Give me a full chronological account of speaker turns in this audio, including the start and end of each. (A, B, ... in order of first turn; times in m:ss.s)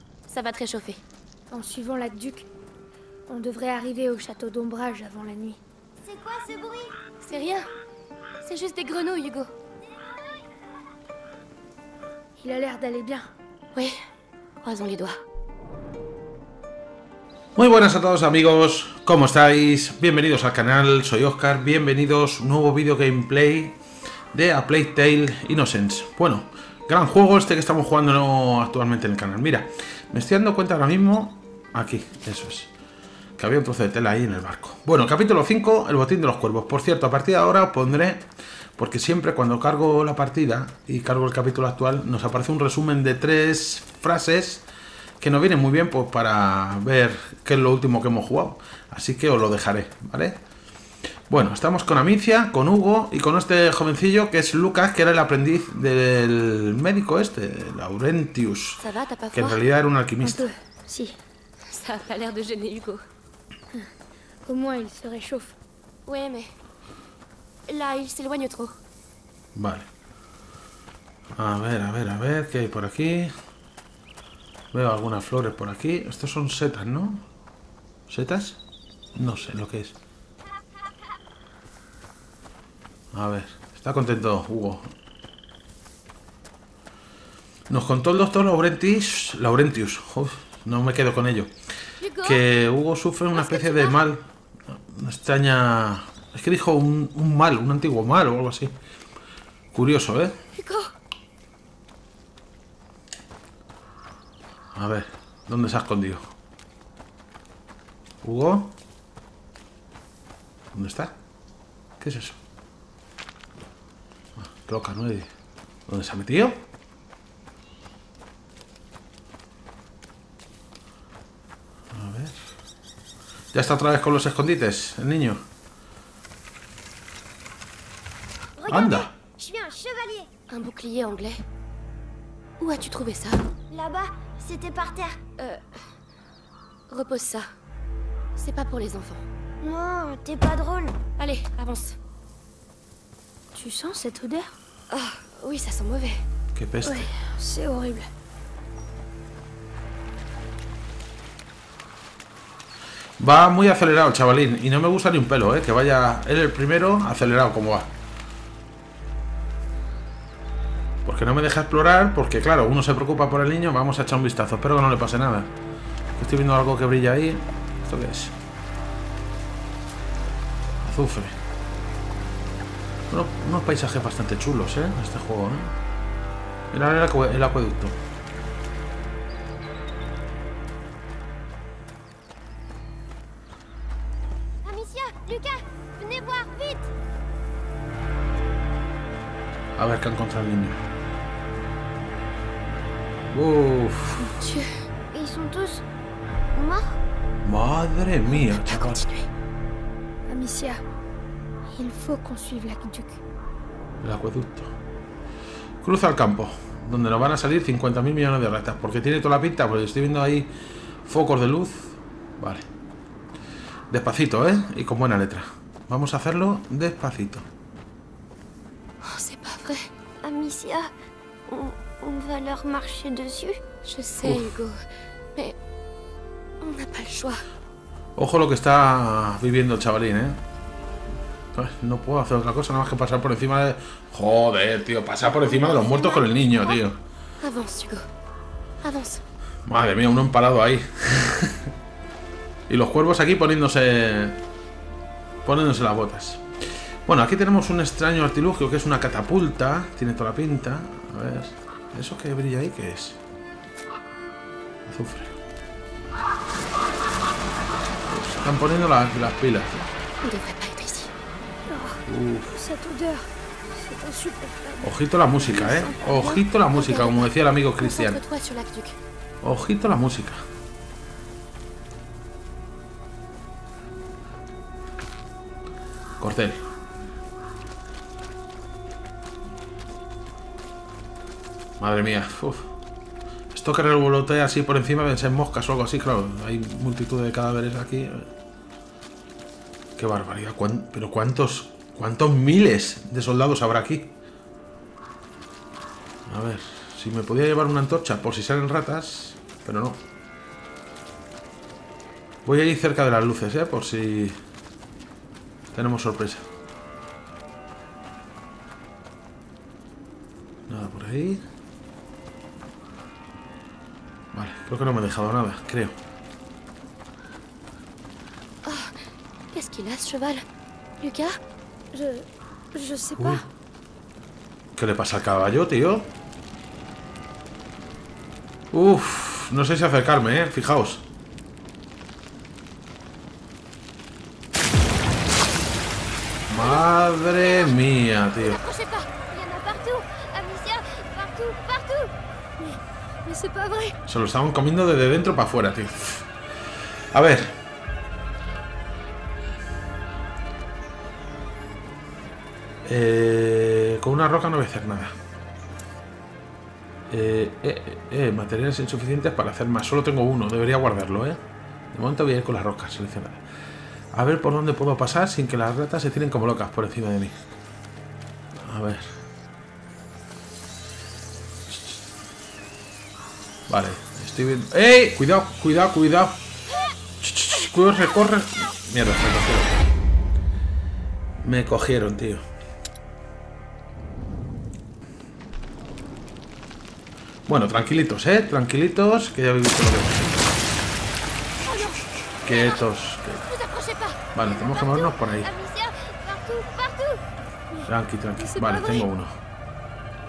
0:00.3-0:01.0 A
0:01.5-0:02.5 B
0:03.3-0:05.6 B
0:06.0-0:07.0 C
0:07.2-0:07.7 A
0:08.4-0:09.5 A
0:12.4-0:13.3 B
0:14.6-0:15.2 A
0:17.6-0:23.8 D
0:24.3-0:32.7 D
0:33.4-0:44.7 D
0:45.2-0:50.4 D
0:51.3-1:00.5 D
0:58.8-0:59.6 A
1:00.2-1:01.2 B
1:01.7-1:03.0 A
1:04.4-1:05.6 B
1:06.1-1:06.5 A
1:07.7-1:08.8 A
1:09.6-1:09.9 D
1:11.4-1:13.3 D
1:14.7-1:17.3 D
1:18.1-1:18.6 D
1:19.2-1:20.0 D
1:23.1-1:24.9 D
1:27.7-1:31.5 D
1:32.0-1:32.4 A
1:32.2-1:38.8 D
1:33.3-1:34.0 A
1:39.7-1:40.4 D
1:40.6-1:40.9 A
1:44.7-1:46.3 D
1:48.2-1:48.8 D
1:50.7-1:51.2 D
1:52.0-1:52.4 D
1:54.4-1:55.3 D
1:55.9-1:56.6 D
2:01.9-2:02.4 D
2:03.5-2:05.4 D
2:08.6-2:10.3 C
2:08.7-2:09.1 D
2:10.5-2:11.4 A
2:12.6-2:13.5 A
2:13.7-2:15.2 C
2:15.4-2:15.9 A
2:16.9-2:17.5 A
2:18.4-2:19.2 A
2:19.6-2:21.0 C
2:21.2-2:22.0 A
2:23.5-2:24.5 B
2:24.9-2:26.2 A
2:26.5-2:27.1 D
2:26.8-2:28.1 B
2:33.2-2:37.9 D
2:41.0-2:45.5 D
2:46.2-2:48.4 D
2:50.8-2:51.4 D
2:53.1-2:55.8 D
2:56.7-2:58.0 D
3:04.6-3:06.9 C
3:09.8-3:10.8 D
3:13.3-3:14.3 D
3:14.2-3:14.7 A
3:15.1-3:15.8 C
3:16.5-3:17.0 C
3:17.4-3:19.0 D
3:18.3-3:19.3 A
3:20.3-3:20.8 B
3:21.7-3:23.2 B
3:24.0-3:24.7 D
3:25.8-3:30.5 D
3:31.0-3:32.7 D
3:33.9-3:37.5 D
3:39.0-3:39.9 A
3:40.2-3:40.9 C
3:41.5-3:43.6 C
3:43.8-3:45.6 A
3:44.2-3:44.6 D
3:46.6-3:47.4 A
3:48.2-3:50.4 D
3:51.5-3:57.0 D
3:55.3-3:56.8 A
3:57.4-3:58.1 A
3:58.8-3:59.2 A
3:59.7-4:01.7 D
4:02.7-4:04.4 D
4:05.4-4:13.2 D
4:14.8-4:15.4 D
4:18.1-4:19.8 D
4:20.2-4:21.1 A
4:21.7-4:24.8 B
4:22.1-4:22.6 D
4:24.8-4:28.2 D
4:25.6-4:25.9 B
4:26.7-4:27.2 A
4:27.8-4:29.0 A
4:29.4-4:30.4 D
4:36.2-4:36.6 D
4:41.8-4:42.7 D
4:43.5-4:48.3 D
4:50.0-4:54.1 D
4:56.2-5:00.0 D
5:02.4-5:04.4 D
5:05.7-5:06.5 D
5:10.7-5:11.4 D
5:14.3-5:15.9 D
5:18.6-5:20.5 A
5:21.0-5:21.4 A
5:21.9-5:23.5 B
5:23.2-5:23.5 D
5:24.8-5:26.1 D
5:28.7-5:31.0 D
5:36.5-5:38.6 D
5:37.4-5:37.6 A
5:38.3-5:39.1 A
5:39.2-5:42.1 C
5:42.6-5:43.9 B
5:44.1-5:46.3 D
5:47.1-5:47.6 D
5:52.8-5:55.2 D
5:57.1-6:03.4 D
6:04.1-6:07.4 D
6:08.6-6:09.2 D
6:11.7-6:12.0 D
6:13.7-6:16.4 D
6:17.2-6:19.8 D
6:21.4-6:22.4 D
6:27.5-6:30.5 D
6:31.6-6:32.9 A
6:32.4-6:33.5 D
6:33.4-6:34.2 A
6:34.3-6:35.5 D
6:34.4-6:37.2 C
6:37.7-6:39.1 B
6:37.8-6:39.4 D